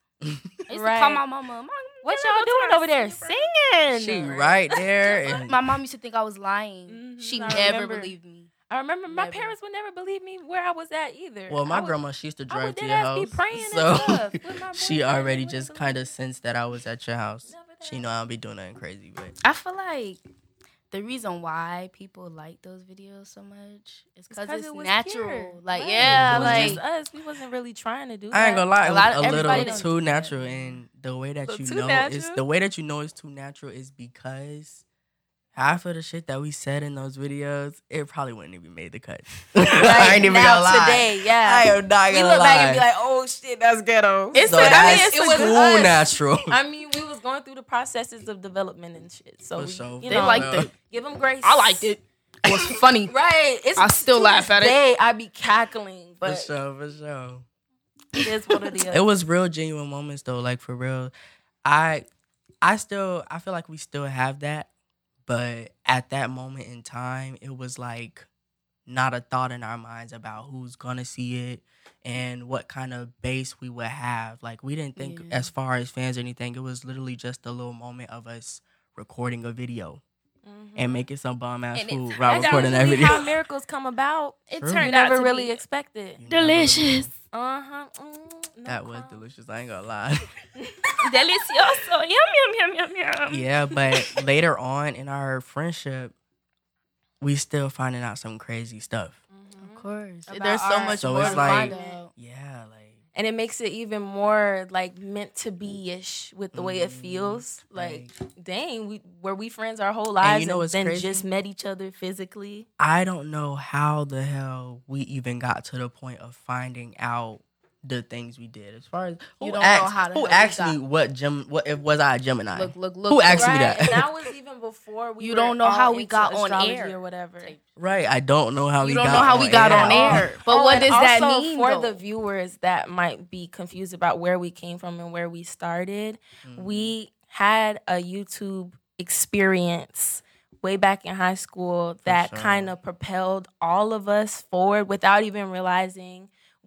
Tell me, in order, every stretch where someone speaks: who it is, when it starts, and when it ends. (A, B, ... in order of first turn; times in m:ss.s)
0:00.2-0:00.5 A
0:00.7-0:03.5 B
0:00.7-0:01.2 C
0:02.0-0:05.5 C
0:03.9-0:05.6 A
0:05.5-0:08.5 B
0:06.9-0:08.1 C
0:08.7-0:12.0 C
0:09.1-0:09.6 B
0:11.5-0:19.4 A
0:12.5-0:16.0 C
0:17.5-0:18.0 C
0:19.4-0:20.2 B
0:20.9-0:26.8 B
0:24.3-0:30.0 C
0:26.0-0:26.8 A
0:28.3-0:34.8 A
0:28.8-0:30.8 B
0:31.5-0:32.4 C
0:35.5-0:42.9 A
0:39.6-0:51.9 C
0:44.3-0:45.7 B
0:44.4-0:46.6 A
0:49.6-0:50.7 A
0:50.1-0:50.7 B
0:51.4-0:53.1 B
0:52.5-0:56.5 C
0:53.8-0:54.8 B
0:56.2-0:57.4 A
0:58.2-0:59.1 C
0:58.9-1:01.1 A
1:01.6-1:02.1 A
1:02.6-1:04.7 A
1:05.2-1:08.3 A
1:08.9-1:20.0 A
1:15.0-1:15.5 B
1:20.4-1:21.1 C
1:20.8-1:23.3 A
1:21.7-1:23.3 B
1:22.2-1:26.2 C
1:24.5-1:25.6 B
1:24.6-1:24.9 A
1:26.2-1:27.1 A
1:26.3-1:27.1 B
1:27.3-1:29.2 C
1:28.7-1:30.3 A
1:30.6-1:31.4 C
1:31.0-1:33.4 B
1:33.3-1:36.2 A
1:37.2-1:39.2 A
1:39.3-1:42.0 C
1:39.6-1:42.1 B
1:41.0-1:43.0 A
1:43.2-1:52.7 C
1:46.5-1:48.1 A
1:50.2-1:51.2 A
1:52.8-2:04.0 A
1:59.4-2:00.8 B
2:02.5-2:04.0 B
2:03.3-2:07.6 C
2:05.2-2:07.6 B
2:07.8-2:10.3 A
2:08.8-2:12.0 B
2:09.5-2:26.3 C
2:16.4-2:16.9 A
2:22.1-2:22.8 A